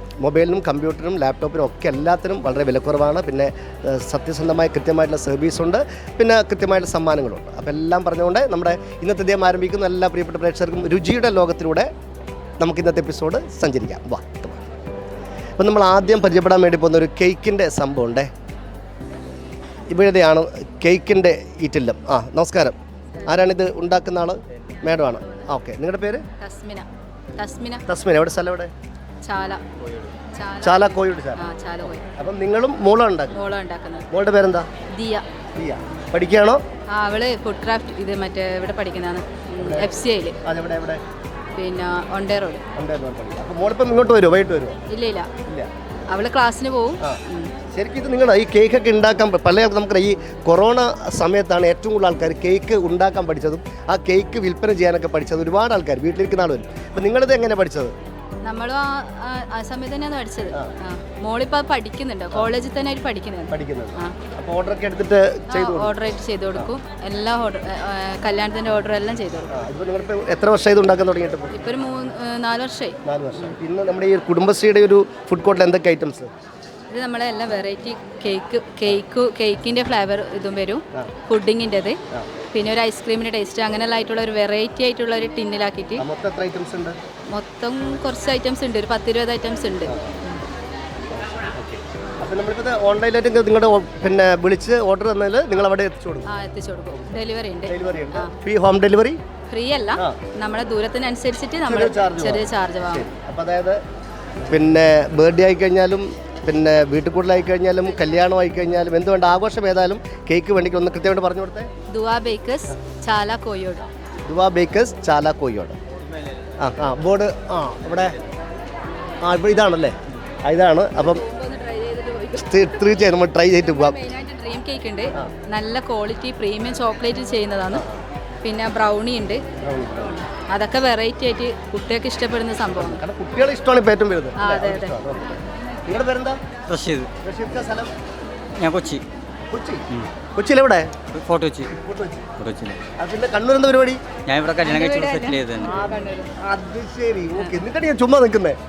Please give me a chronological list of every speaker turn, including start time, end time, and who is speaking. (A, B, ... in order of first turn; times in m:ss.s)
0:00.2-0:11.9 A
0:12.6-0:14.6 A
0:15.6-0:18.3 A
0:19.9-0:26.2 A
0:26.4-0:26.9 B
0:27.4-0:27.8 B
0:27.9-0:28.7 A
0:29.2-0:29.6 B
0:30.4-0:32.0 B
0:30.6-0:31.4 A
0:32.1-0:33.4 A
0:33.3-0:34.1 B
0:34.1-0:34.7 A
0:35.0-0:35.2 B
0:35.6-0:36.6 A
0:36.9-0:40.4 B
0:39.6-0:39.9 A
0:40.4-0:41.0 A
0:41.6-0:42.6 B
0:42.8-0:44.8 A
0:44.9-0:45.3 B
0:46.1-0:47.5 B
0:47.7-0:57.9 A
0:58.4-1:04.2 B
1:03.5-1:05.9 A
1:05.5-1:09.5 B
1:09.5-1:11.6 A
1:11.5-1:13.0 B
1:13.0-1:16.3 A
1:16.9-1:22.0 B
1:22.5-1:26.0 B
1:26.0-1:27.0 A
1:27.3-1:30.4 B
1:29.8-1:30.1 A
1:31.6-1:36.3 A
1:36.3-1:38.3 B
1:37.7-1:39.2 A
1:39.5-1:43.1 B
1:41.6-1:43.8 A
1:44.5-1:51.7 A
1:51.9-1:53.9 B
1:54.3-1:55.8 A
1:56.6-1:58.2 A
1:59.2-2:01.2 A
2:01.0-2:07.8 B
2:02.3-2:04.0 A
2:07.7-2:08.0 A
2:08.4-2:09.4 B
2:09.6-2:10.2 A
2:10.1-2:13.0 B
2:12.8-2:16.4 A
2:14.4-2:15.0 B
2:16.7-2:17.1 C
2:17.2-2:17.9 A
2:18.6-2:19.0 C
2:19.5-2:20.9 A
2:21.1-2:21.7 C
2:21.8-2:22.3 A
2:22.4-2:22.8 C
2:23.0-2:24.0 A
2:24.3-2:25.6 C
2:24.6-2:26.4 B
2:25.6-2:28.6 A